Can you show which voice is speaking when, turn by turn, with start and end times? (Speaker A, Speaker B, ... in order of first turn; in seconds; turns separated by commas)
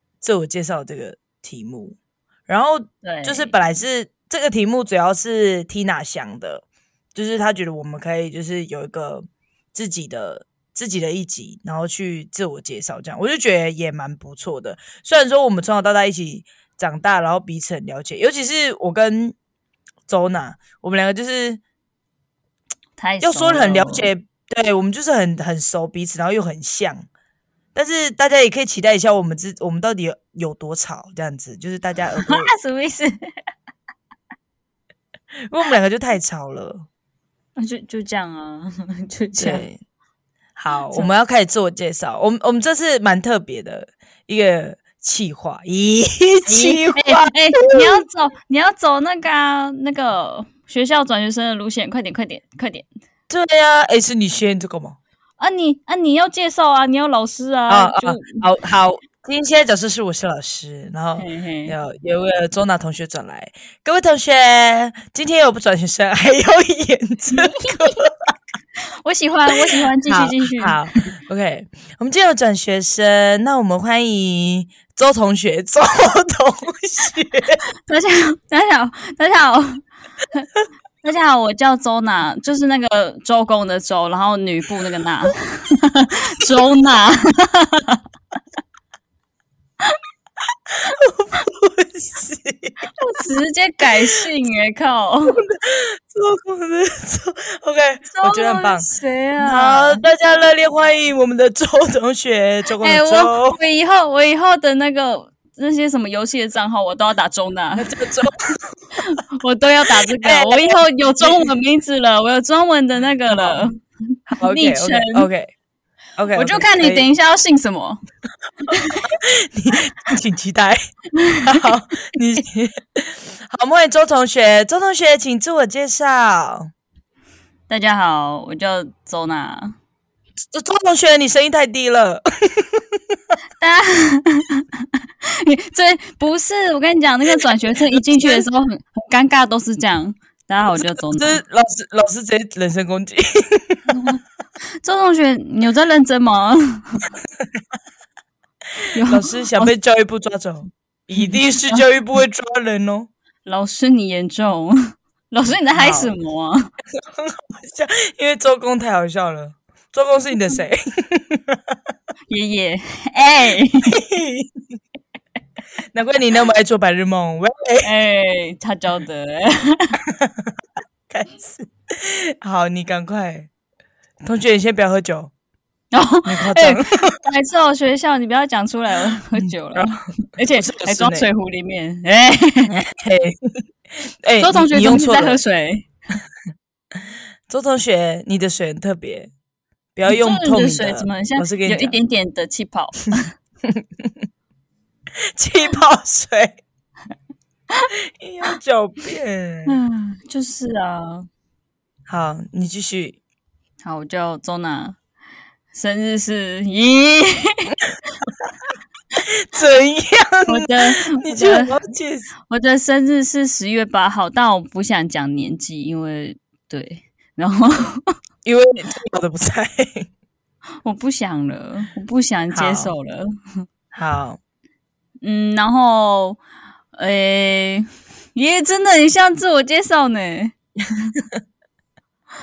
Speaker A: 0.2-19.4, Speaker B: 3.0-3.5, Speaker A: 20.1-21.6, Speaker B: 23.0-24.1, Speaker A: 23.2-27.1, Speaker A: 27.8-32.5, Speaker B: 32.2-33.2, Speaker A: 35.4-36.9, Speaker B: 37.6-39.6, Speaker A: 39.4-39.8, Speaker A: 40.6-48.0, Speaker B: 46.5-52.9, Speaker A: 53.3-55.0, Speaker B: 55.4-58.5, Speaker A: 57.7-68.3, Speaker B: 61.2-61.8, Speaker B: 67.3-68.0, Speaker B: 69.0-70.8, Speaker A: 69.5-77.6, Speaker B: 77.8-80.5, Speaker B: 81.0-88.0, Speaker A: 90.7-92.9, Speaker B: 93.0-95.4, Speaker A: 95.3-98.9, Speaker B: 98.1-100.0, Speaker A: 99.4-103.6, Speaker B: 102.8-108.0, Speaker A: 107.8-108.4, Speaker B: 109.0-113.8, Speaker A: 110.0-111.5, Speaker A: 113.3-113.6, Speaker A: 114.3-115.5, Speaker B: 114.4-115.3, Speaker A: 116.2-117.1, Speaker B: 116.3-118.0, Speaker B: 118.7-119.1, Speaker A: 119.0-120.9, Speaker B: 121.2-121.6, Speaker A: 121.4-126.7, Speaker B: 127.7-129.8, Speaker A: 130.5-133.2, Speaker B: 133.6-141.4, Speaker A: 137.5-138.5, Speaker A: 140.8-144.0, Speaker B: 144.8-147.1, Speaker B: 148.9-149.7, Speaker A: 149.1-153.1, Speaker B: 151.2-151.8, Speaker B: 153.4-156.7, Speaker A: 155.8-156.1, Speaker A: 156.9-161.8, Speaker B: 162.3-164.0, Speaker A: 163.9-164.5, Speaker A: 165.9-167.9, Speaker B: 167.8-170.0, Speaker A: 170.1-170.5, Speaker A: 171.1-173.5, Speaker A: 174.2-175.3, Speaker B: 175.9-182.7, Speaker A: 176.2-177.2, Speaker A: 179.4-181.3, Speaker A: 182.7-183.4, Speaker A: 184.1-185.4, Speaker B: 184.4-185.9, Speaker A: 187.5-189.3, Speaker A: 189.9-192.0, Speaker B: 190.1-193.3, Speaker A: 193.7-194.1, Speaker A: 195.3-196.6, Speaker A: 197.9-199.8, Speaker B: 199.7-201.3, Speaker A: 202.1-203.2, Speaker B: 203.8-205.0, Speaker B: 205.7-207.7, Speaker A: 207.9-208.5, Speaker A: 209.2-212.3, Speaker B: 210.5-211.8, Speaker B: 212.5-218.1, Speaker A: 218.4-220.1, Speaker B: 220.8-223.3, Speaker A: 222.5-222.9, Speaker A: 223.9-224.4, Speaker B: 225.2-226.4, Speaker B: 226.9-230.6